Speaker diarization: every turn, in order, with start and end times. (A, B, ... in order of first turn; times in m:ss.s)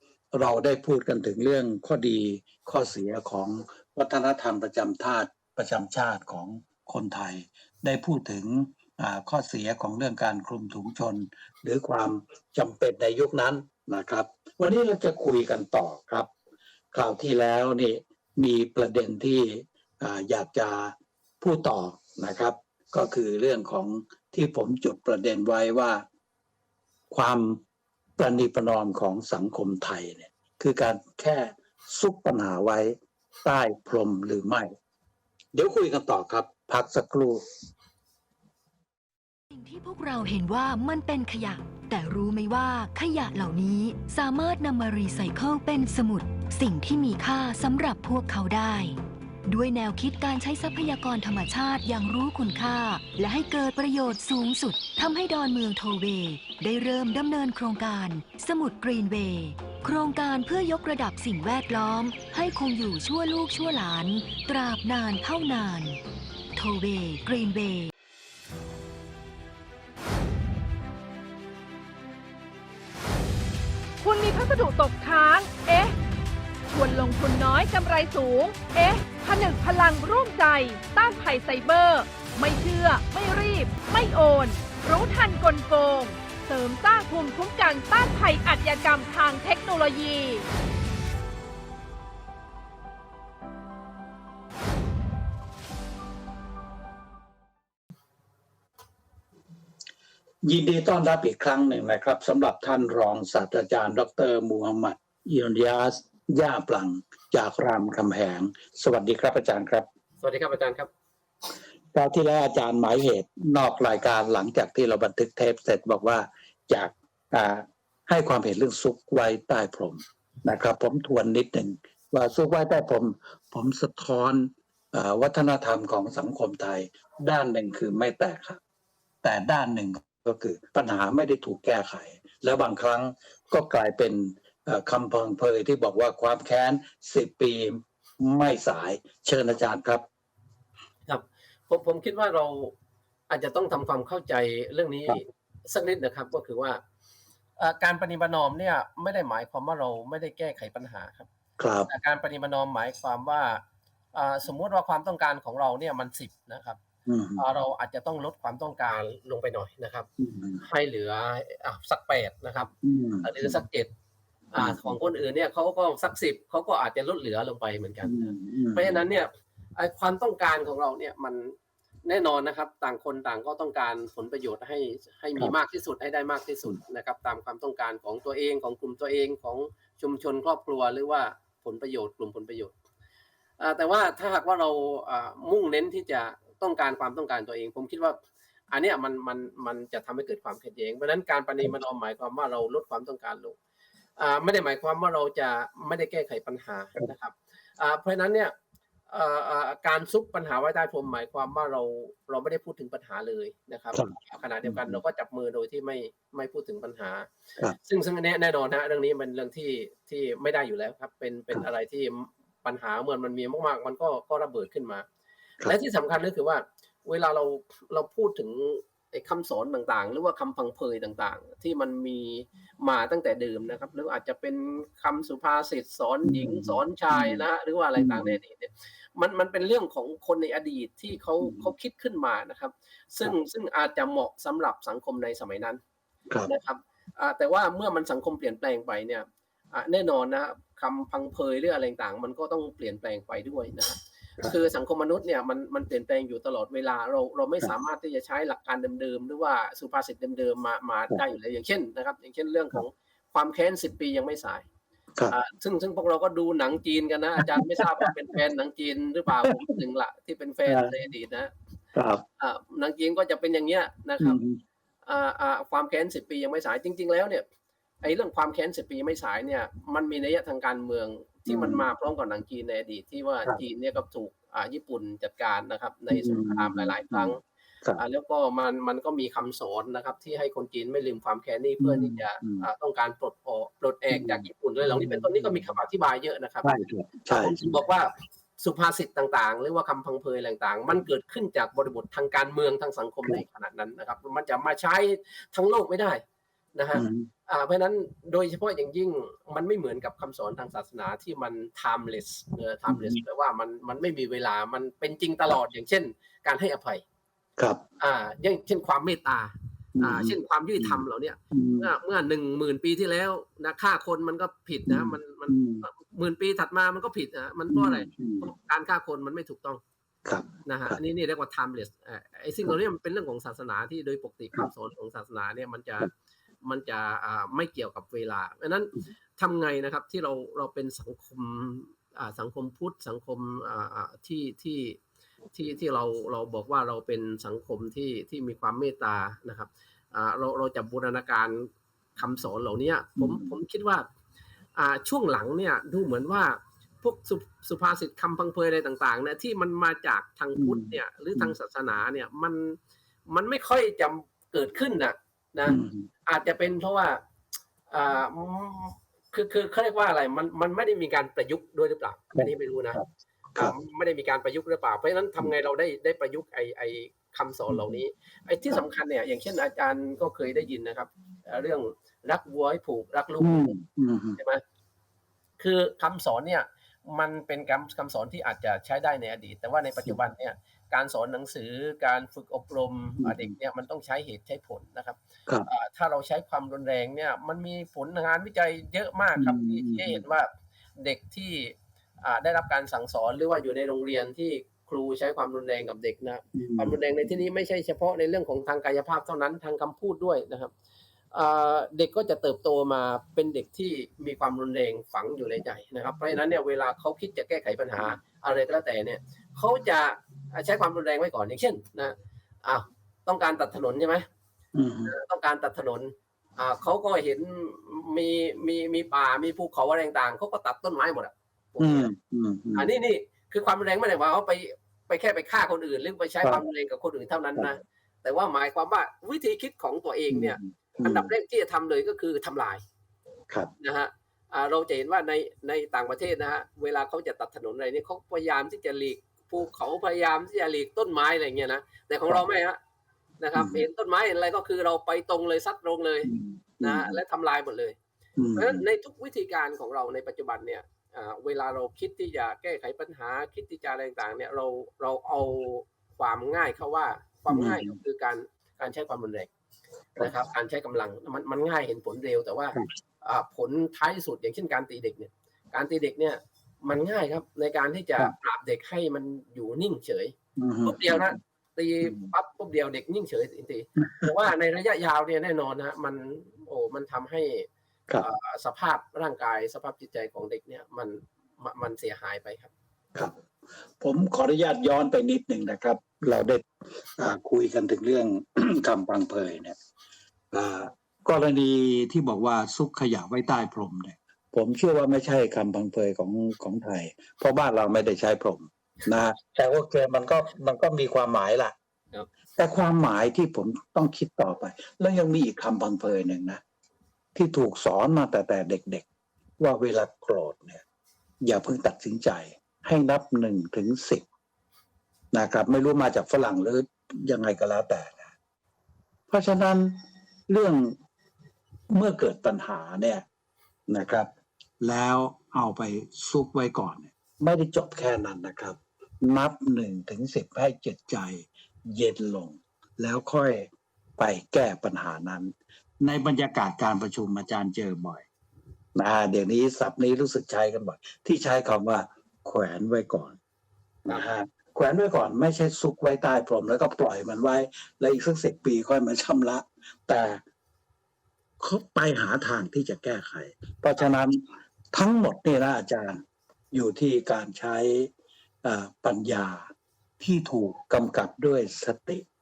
0:00.3-0:16.3 A
0:16.9-0:26.0 A
0:27.1-0:27.6 A
0:28.2-0:34.7 A
0:35.5-0:37.4 A
0:39.5-1:06.0 B
1:06.5-1:07.9 B
1:14.0-1:16.0 C
1:16.7-1:30.5 C
1:40.4-1:49.8 A
1:50.2-1:50.9 D
1:51.9-2:08.6 A
2:09.2-2:20.0 A
2:21.1-2:22.7 D
2:23.3-2:26.8 D
2:27.6-2:31.3 D
2:31.6-2:31.9 A
2:31.9-2:33.6 D
2:34.1-2:36.8 D
2:37.0-2:37.4 A
2:37.4-2:40.1 D
2:40.2-2:40.6 A
2:40.6-2:43.9 D
2:42.8-2:43.5 A
2:44.5-3:02.7 D
2:44.6-2:45.0 A
2:48.0-2:49.0 A
3:03.6-3:08.2 D
3:08.7-3:13.6 D
3:14.2-3:18.5 D
3:19.1-3:27.3 D
3:23.9-3:25.0 A
3:27.8-3:35.0 D
3:35.6-3:55.8 D
3:46.2-3:47.4 A
3:48.0-3:48.4 A
3:51.4-3:51.7 A
3:56.4-4:14.6 D
4:15.3-4:21.5 D
4:17.4-4:17.8 A
4:21.9-4:22.2 A
4:22.4-4:24.4 D
4:24.2-4:24.6 A
4:25.0-4:27.4 D
4:28.0-4:37.4 D
4:31.5-4:31.8 A
4:36.1-4:38.0 A
4:38.0-4:46.7 D
4:41.8-4:42.7 A
4:44.1-4:45.6 A
4:46.6-4:47.8 A
4:47.3-4:56.2 D
4:56.7-5:07.0 D
4:56.9-4:57.3 A
5:02.9-5:03.2 A
5:08.0-5:19.8 D
5:10.0-5:11.9 A
5:14.9-5:15.8 A
5:17.7-5:18.5 A
5:20.2-5:21.0 A
5:20.6-5:26.1 D
5:26.6-5:35.0 D
5:35.5-5:44.0 D
5:43.2-5:43.5 A
5:44.8-5:52.8 D
5:50.6-5:51.5 A
5:53.3-5:57.2 D
5:55.7-5:56.1 A
5:57.9-6:03.0 D
6:02.3-6:03.7 A
6:03.6-6:13.8 D
6:07.7-6:08.0 A
6:13.4-6:14.4 A
6:14.4-6:14.6 D
6:15.6-6:40.7 D
6:23.2-6:23.5 A
6:29.4-6:30.2 A
6:36.5-6:37.0 A
6:41.3-6:54.2 D
6:54.7-6:55.1 A
6:55.0-7:02.1 D
7:01.8-7:02.9 A
7:02.7-7:12.8 D
7:10.3-7:11.3 A
7:13.8-7:22.8 D
7:23.4-7:26.3 D
7:23.6-7:23.8 A
7:26.2-7:27.2 A
7:26.8-7:28.0 D
7:28.4-7:28.8 A
7:28.6-7:39.5 D
7:37.5-7:38.0 A
7:40.2-7:57.7 D
7:50.6-7:51.4 A
7:52.0-7:52.3 A
7:54.0-7:54.3 A
7:58.2-8:02.7 D
8:04.0-8:09.8 A
8:10.5-8:21.7 A
8:22.6-8:26.6 A
8:27.3-8:29.0 A
8:29.6-8:30.8 A
8:31.4-8:34.2 A
8:35.3-8:38.3 A
8:39.3-8:40.0 A
8:40.5-8:41.0 A
8:41.9-8:43.2 A
8:43.9-8:44.3 A
8:44.8-8:58.2 A
8:59.0-9:03.4 A
9:04.1-9:10.4 A
9:11.6-9:16.2 A
9:16.7-9:18.1 A
9:18.6-9:19.7 A
9:20.2-9:22.2 A